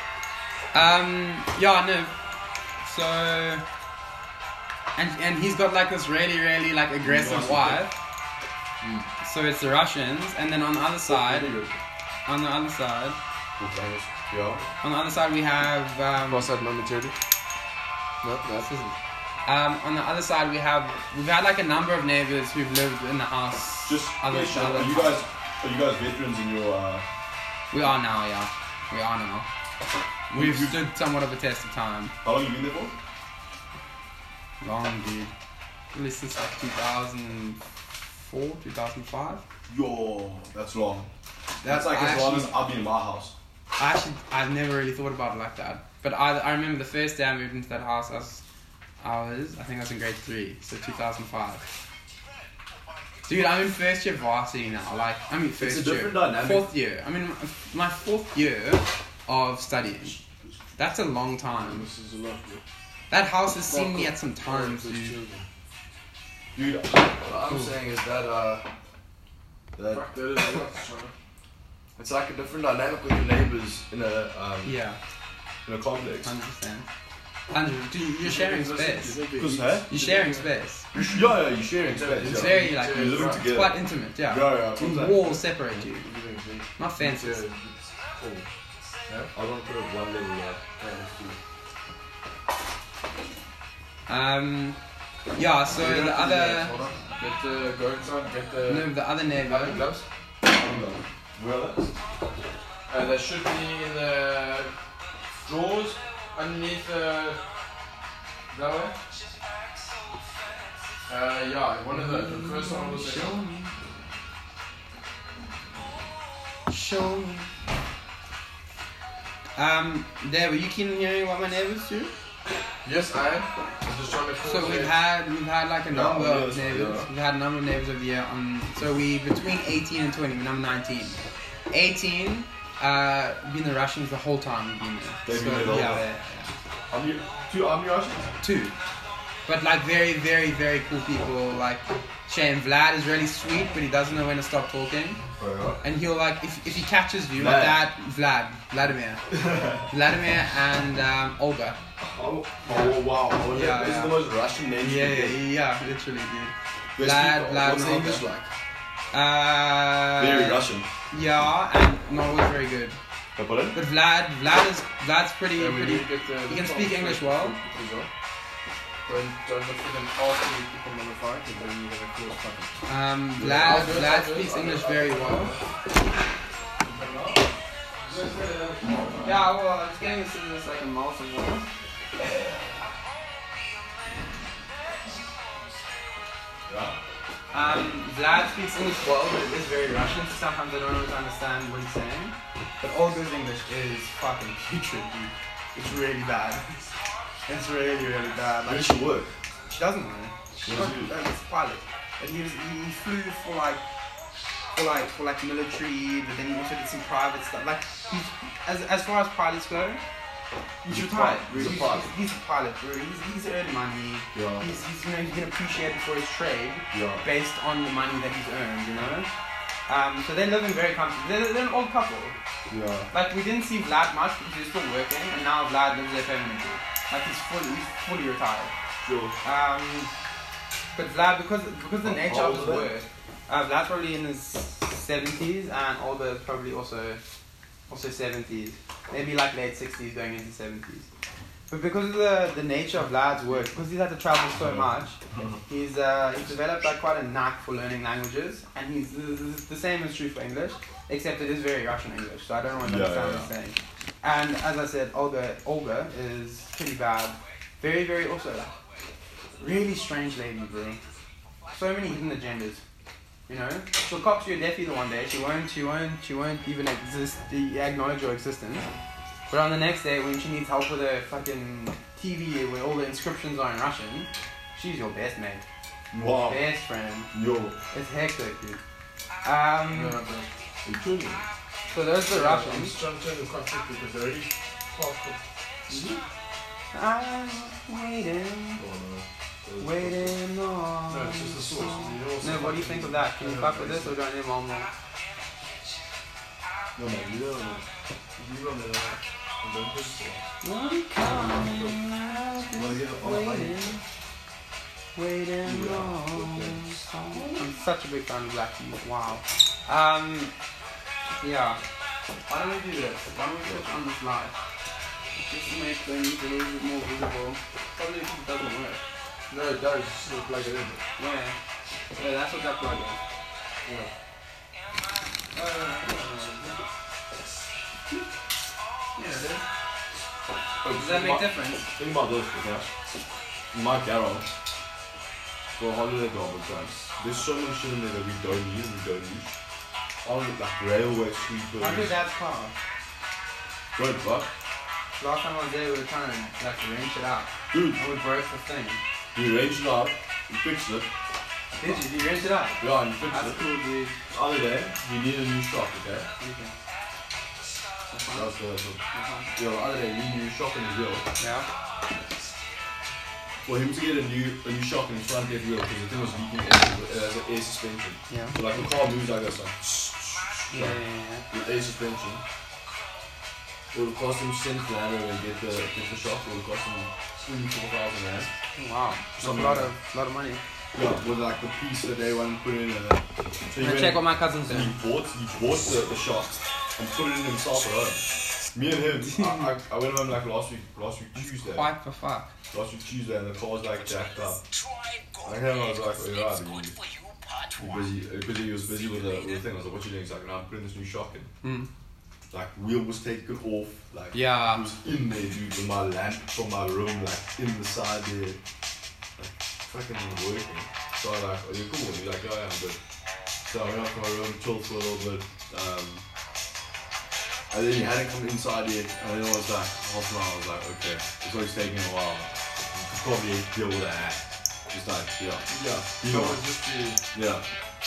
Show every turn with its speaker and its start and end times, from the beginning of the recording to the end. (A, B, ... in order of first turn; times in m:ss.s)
0:00.7-0:02.2 A
0:02.8-0:03.6 A
0:05.0-0:08.0 A
0:07.0-0:07.8 B
0:09.2-0:11.6 A
0:11.1-0:11.7 C
0:12.3-0:13.2 A
0:13.6-0:14.7 B
0:14.8-0:16.5 A
0:16.3-0:17.2 C
0:18.2-0:18.7 C
0:18.6-0:25.2 A
0:23.8-0:27.0 B
0:27.7-0:29.5 A
0:30.3-0:30.8 B
0:30.3-0:32.1 A
0:32.2-0:33.0 B
0:34.6-0:35.3 A
0:35.9-0:39.4 A
0:39.7-0:41.1 B
0:41.6-0:42.6 A
0:41.6-0:43.4 B
0:43.8-0:48.4 A
0:49.0-0:51.6 A
0:53.3-1:00.2 A
0:55.6-0:56.7 B
1:00.8-1:01.9 A
1:01.5-1:02.6 C
1:03.1-1:05.2 A
1:03.7-1:05.5 C
1:06.6-1:08.7 B
1:09.8-1:10.6 B
1:09.9-1:11.1 C
1:12.0-1:14.7 B
1:14.6-1:15.0 A
1:15.6-1:16.3 B
1:16.2-1:16.9 A
1:17.5-1:19.2 A
1:18.2-1:21.2 C
1:19.4-1:19.9 B
1:19.9-1:20.9 A
1:21.0-1:25.4 B
1:21.9-1:23.4 C
1:22.3-1:26.1 A
1:25.8-1:28.5 C
1:26.8-1:27.4 A
1:29.3-1:30.6 B
1:30.8-1:31.4 C
1:34.1-1:34.8 A
1:35.3-1:36.8 A
1:35.8-1:40.1 C
1:38.7-1:39.9 A
1:40.4-1:41.9 B
1:42.9-1:44.7 C
1:45.3-1:47.4 C
1:48.5-1:49.0 C
1:51.1-1:53.4 C
1:51.9-1:53.7 A
1:56.7-1:57.5 A
1:59.6-2:02.1 A
2:02.8-2:04.9 C
2:04.4-2:16.5 A
2:05.9-2:07.1 B
2:15.2-2:16.0 B
2:15.4-2:15.7 C
2:16.9-2:18.3 B
2:18.4-2:18.7 A
2:19.4-2:25.2 A
2:25.4-2:25.8 B
2:25.8-2:29.3 A
2:27.4-2:27.8 B
2:29.3-2:29.9 B
2:29.9-2:31.8 A
2:32.0-2:35.4 B
2:32.6-2:34.2 A
2:34.8-2:38.2 A
2:37.0-2:38.5 B
2:39.1-2:43.0 A
2:40.2-2:40.9 B
2:43.4-2:43.8 B
2:43.7-2:47.6 A
2:45.6-2:48.1 C
2:49.1-2:52.8 C
2:52.9-2:55.5 A
2:53.4-2:55.6 C
2:56.8-2:57.3 C
2:58.0-2:59.3 C
2:59.2-3:01.6 A
3:02.2-3:02.6 B
3:06.7-3:07.0 B
3:07.5-3:16.9 A
3:17.5-3:19.1 A
3:18.7-3:19.3 B
3:19.7-3:23.8 A
3:20.6-3:21.1 B
3:24.7-3:30.0 A
3:30.8-3:39.3 A
3:30.9-3:32.1 B
3:34.3-3:34.7 B
3:36.9-3:37.2 B
3:39.9-3:42.4 A
3:42.7-3:43.1 B
3:43.1-3:48.7 A
3:49.0-3:49.4 B
3:49.4-3:50.1 A
3:50.9-3:57.2 A
3:52.0-3:52.9 B
3:57.9-4:01.1 A
4:01.7-4:18.8 A
4:04.6-4:05.6 B
4:12.8-4:13.5 B
4:19.6-4:21.0 A
4:21.7-4:22.8 A
4:23.5-4:28.9 A
4:29.5-4:35.6 A
4:36.1-4:36.6 B
4:36.5-4:37.3 A
4:37.3-4:37.8 B
4:37.9-4:38.8 A
4:39.4-4:40.2 A
4:39.9-4:40.5 C
4:40.8-4:41.5 B
4:41.9-4:43.0 A
4:42.3-4:46.2 C
4:46.9-4:48.8 A
4:48.8-4:49.2 C
4:49.1-4:50.4 B
4:49.8-4:54.9 A
4:51.1-4:54.2 C
4:57.0-4:57.9 B
4:58.4-5:00.4 B
5:00.6-5:04.0 A
5:01.3-5:02.0 B
5:02.7-5:04.0 B
5:05.2-5:10.5 A
5:05.6-5:07.7 B
5:11.4-5:11.8 A
5:12.5-5:14.6 A
5:15.4-5:19.0 A
5:19.5-5:21.0 C
5:21.2-5:21.6 A
5:22.2-5:23.2 A
5:23.8-5:24.1 C
5:25.5-5:26.8 A
5:29.2-5:29.7 A
5:30.8-5:32.9 B
5:31.0-5:31.9 A
5:33.7-5:34.5 B
5:35.7-5:39.5 B
5:40.2-5:42.1 B
5:41.8-5:42.8 A
5:44.0-5:44.5 B
5:45.2-5:49.0 A
5:47.7-5:48.0 B
5:49.3-5:51.1 B
5:51.8-5:54.1 A
5:52.8-5:53.6 B
5:54.3-5:56.3 B
5:56.4-5:56.7 A
5:58.1-5:58.5 A
5:58.3-5:59.0 B
5:59.1-5:59.5 A
5:59.5-6:01.2 B
6:01.4-6:01.7 A
6:03.6-6:12.4 B
6:08.3-6:08.6 A
6:10.7-6:11.4 A
6:13.9-6:18.5 B
6:18.8-6:20.6 A
6:19.4-6:19.9 B
6:20.9-6:28.2 B
6:23.8-6:25.0 A
6:28.7-6:31.9 B
6:28.9-6:29.7 A
6:31.6-6:32.5 A
6:32.7-6:34.6 B
6:35.4-6:37.0 B
6:37.7-6:41.5 B
6:41.6-6:41.9 A
6:42.5-6:48.6 B
6:44.3-6:44.9 A
6:49.4-6:53.0 B
6:53.7-6:56.2 B
6:57.7-7:06.6 B
7:05.7-7:07.2 C
7:07.3-7:07.7 B